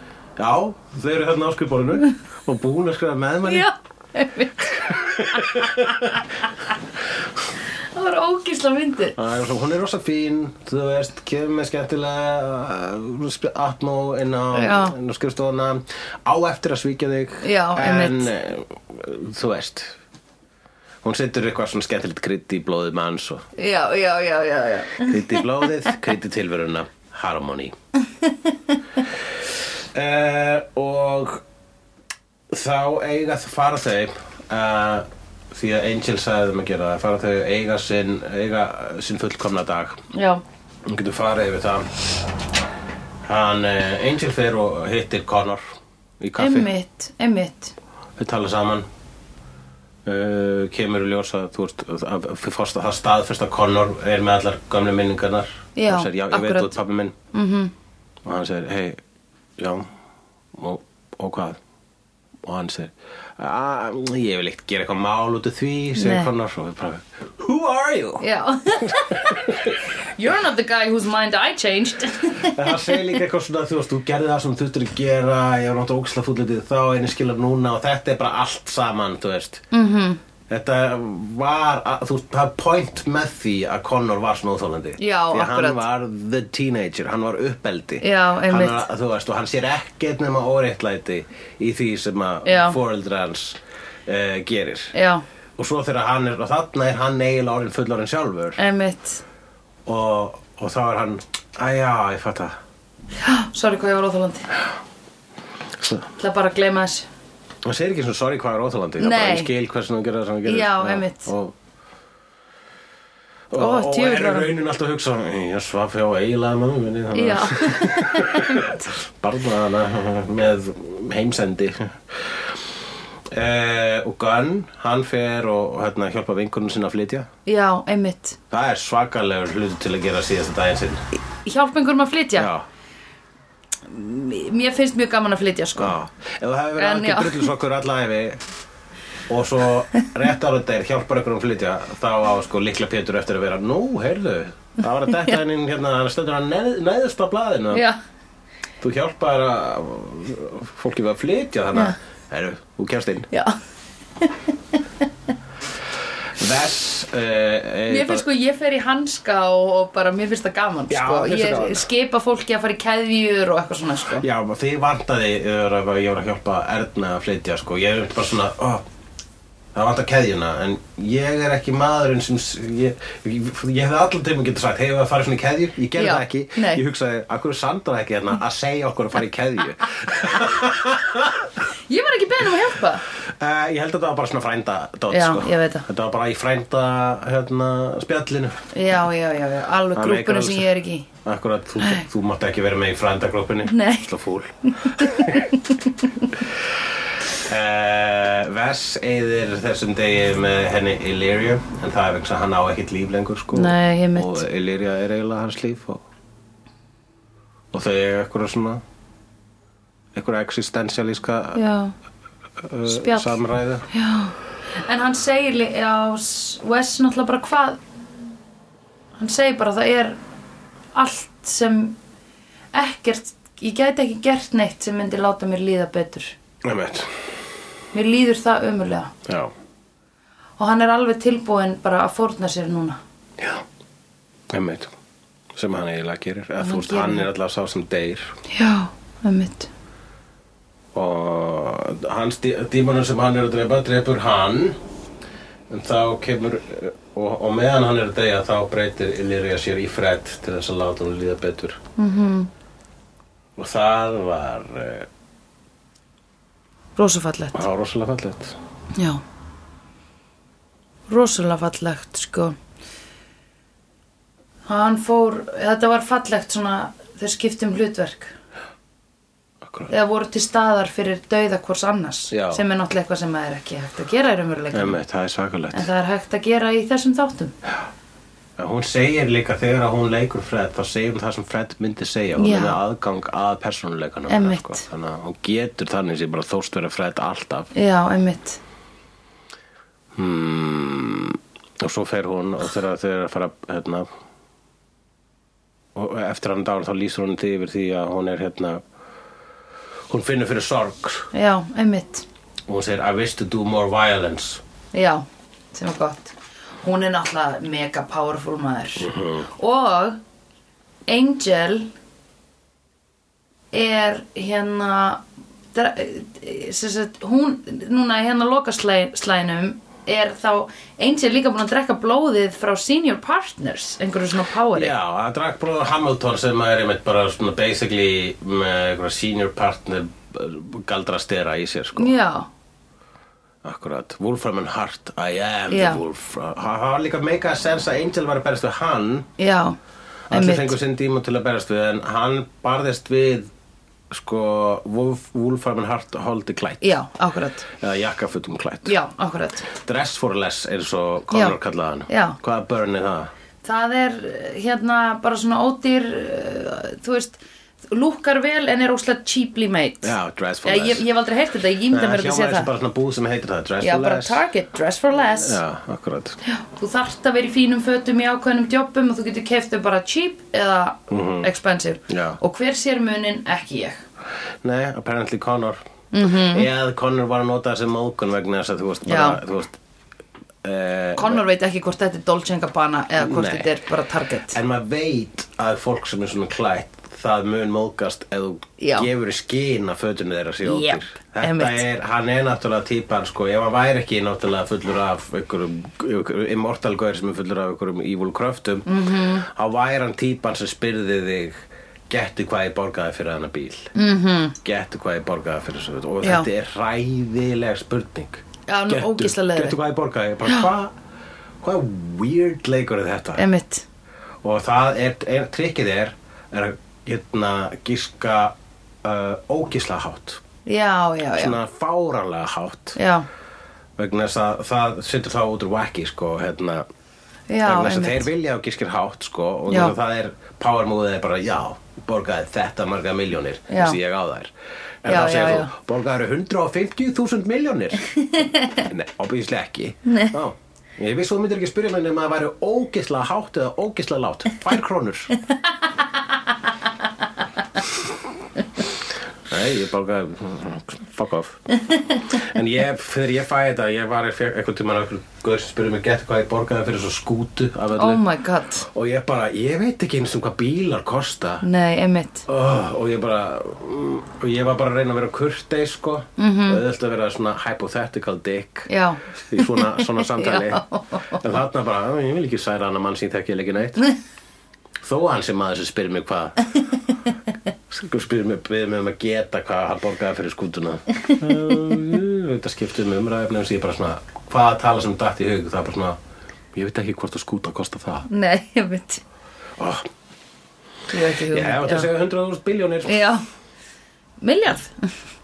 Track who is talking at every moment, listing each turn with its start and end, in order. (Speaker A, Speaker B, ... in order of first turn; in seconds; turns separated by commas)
Speaker A: 0.4-3.7, Speaker B: 3.4-6.1, Speaker A: 4.7-6.2, Speaker B: 7.9-9.2, Speaker A: 9.1-20.0, Speaker B: 14.5-14.9, Speaker B: 17.4-18.3, Speaker A: 21.0-23.5, Speaker B: 23.6-25.5, Speaker A: 25.0-27.7, Speaker B: 28.2-28.5, Speaker A: 29.9-31.4, Speaker A: 32.5-40.0, Speaker B: 40.1-40.4, Speaker A: 40.8-42.0, Speaker A: 43.2-46.7, Speaker B: 46.4-47.7, Speaker A: 48.2-48.9, Speaker A: 50.0-57.1, Speaker B: 55.8-56.8, Speaker B: 57.3-57.7, Speaker A: 58.2-59.0, Speaker A: 59.6-59.9, Speaker A: 60.5-61.6, Speaker A: 62.4-68.2, Speaker B: 66.0-66.3, Speaker B: 68.2-69.4, Speaker A: 68.8-69.8, Speaker B: 70.2-73.1, Speaker A: 72.4-79.6, Speaker B: 79.7-80.2, Speaker A: 80.5-94.9, Speaker B: 85.0-85.8, Speaker B: 88.0-88.8, Speaker B: 92.4-92.8, Speaker B: 94.9-95.2, Speaker A: 95.6-98.6, Speaker B: 98.6-99.2, Speaker A: 99.8-102.6, Speaker B: 103.2-104.5, Speaker A: 105.8-106.1, Speaker B: 106.2-107.1, Speaker A: 107.6-111.5, Speaker B: 109.0-109.5, Speaker B: 110.5-111.3, Speaker A: 113.5-122.6, Speaker B: 113.5-114.5, Speaker B: 117.1-118.9, Speaker A: 123.3-127.3, Speaker B: 127.5-128.4, Speaker A: 128.5-131.0, Speaker B: 131.4-132.5, Speaker A: 132.3-132.6, Speaker B: 133.9-136.0, Speaker A: 135.8-138.4, Speaker B: 136.8-137.5, Speaker A: 139.3-147.8, Speaker B: 147.7-148.0, Speaker A: 148.8-153.3, Speaker B: 153.3-153.6, Speaker A: 156.3-158.2, Speaker B: 157.9-164.2, Speaker A: 160.9-161.9, Speaker A: 164.1-168.8, Speaker A: 169.7-181.5, Speaker B: 175.9-176.8, Speaker B: 181.9-183.0, Speaker A: 183.2-188.6, Speaker B: 185.1-185.8, Speaker B: 188.7-191.1, Speaker A: 189.9-190.7, Speaker A: 191.2-195.5, Speaker B: 193.7-194.1, Speaker B: 194.7-196.3, Speaker A: 197.3-206.0, Speaker B: 203.5-204.4, Speaker A: 207.7-208.8, Speaker A: 210.1-211.6, Speaker B: 211.5-211.9, Speaker A: 212.6-213.8, Speaker B: 212.8-213.3, Speaker B: 213.9-217.8, Speaker B: 219.2-220.2, Speaker B: 220.9-221.9, Speaker B: 222.7-226.3, Speaker A: 226.6-227.3, Speaker B: 227.9-229.1, Speaker A: 229.2-229.5, Speaker B: 230.6-233.0, Speaker A: 233.4-233.6, Speaker A: 234.5-234.9, Speaker A: 235.5-238.3, Speaker B: 236.6-237.3, Speaker B: 238.5-239.7, Speaker A: 240.9-244.8, Speaker A: 245.7-251.8, Speaker B: 252.0-252.5, Speaker A: 253.6-255.1, Speaker B: 256.9-257.6, Speaker A: 257.5-258.6, Speaker B: 258.9-259.2, Speaker B: 261.1-262.6, Speaker B: 264.7-268.3, Speaker A: 269.6-269.9, Speaker B: 269.9-275.0, Speaker A: 272.3-272.6, Speaker A: 274.7-275.9, Speaker B: 275.7-277.5, Speaker A: 278.6-287.7, Speaker B: 282.4-282.8, Speaker B: 284.3-284.8, Speaker B: 287.7-288.6, Speaker A: 290.1-294.1, Speaker A: 295.9-298.8, Speaker A: 300.1-301.3, Speaker B: 301.3-302.2, Speaker A: 302.7-304.6, Speaker B: 304.9-310.2, Speaker A: 309.0-309.4, Speaker B: 311.1-311.9, Speaker B: 313.7-315.2, Speaker B: 315.7-324.9, Speaker A: 324.7-332.1, Speaker B: 331.9-332.5, Speaker A: 333.6-339.3, Speaker B: 335.7-336.0, Speaker B: 339.4-339.8, Speaker A: 340.3-343.5, Speaker B: 340.3-340.8, Speaker A: 344.1-347.0, Speaker B: 346.8-347.7, Speaker A: 347.7-348.9, Speaker B: 348.8-349.7, Speaker A: 349.7-353.3, Speaker B: 351.3-351.6, Speaker B: 352.1-352.4, Speaker B: 353.6-362.7, Speaker A: 360.0-361.0, Speaker A: 361.9-364.4, Speaker B: 363.8-365.6, Speaker A: 365.2-366.4, Speaker B: 366.4-374.0, Speaker A: 371.1-371.5, Speaker A: 372.1-372.4, Speaker A: 374.6-379.8, Speaker B: 376.1-376.7, Speaker B: 379.1-379.4, Speaker A: 380.6-381.4, Speaker B: 381.1-384.6, Speaker A: 383.2-383.7, Speaker A: 384.5-398.9, Speaker B: 388.8-389.1, Speaker B: 390.6-391.8, Speaker B: 398.9-399.4, Speaker A: 399.4-403.9, Speaker B: 403.9-404.6, Speaker A: 404.6-410.9, Speaker B: 406.2-406.5, Speaker B: 408.7-409.8, Speaker A: 411.6-413.4, Speaker B: 413.4-413.8, Speaker A: 414.4-420.4, Speaker B: 420.6-421.6, Speaker A: 421.3-423.0, Speaker B: 422.9-423.2, Speaker A: 424.0-426.9, Speaker B: 427.5-428.3, Speaker A: 427.6-434.5, Speaker B: 429.7-429.9, Speaker B: 433.7-434.0, Speaker A: 435.0-445.3, Speaker B: 435.1-435.7, Speaker B: 438.3-438.9, Speaker B: 440.1-440.3, Speaker A: 449.5-451.6, Speaker A: 452.3-458.2, Speaker B: 457.9-458.9, Speaker A: 458.9-461.6, Speaker B: 461.6-462.4, Speaker A: 462.5-468.9, Speaker B: 466.4-466.8, Speaker B: 468.9-471.4, Speaker A: 469.4-474.0, Speaker A: 475.0-476.7, Speaker A: 477.9-486.2, Speaker A: 486.7-488.3, Speaker B: 488.3-489.2, Speaker A: 489.8-490.1, Speaker B: 491.1-492.1, Speaker A: 491.5-493.2, Speaker B: 493.1-493.4, Speaker B: 494.4-495.1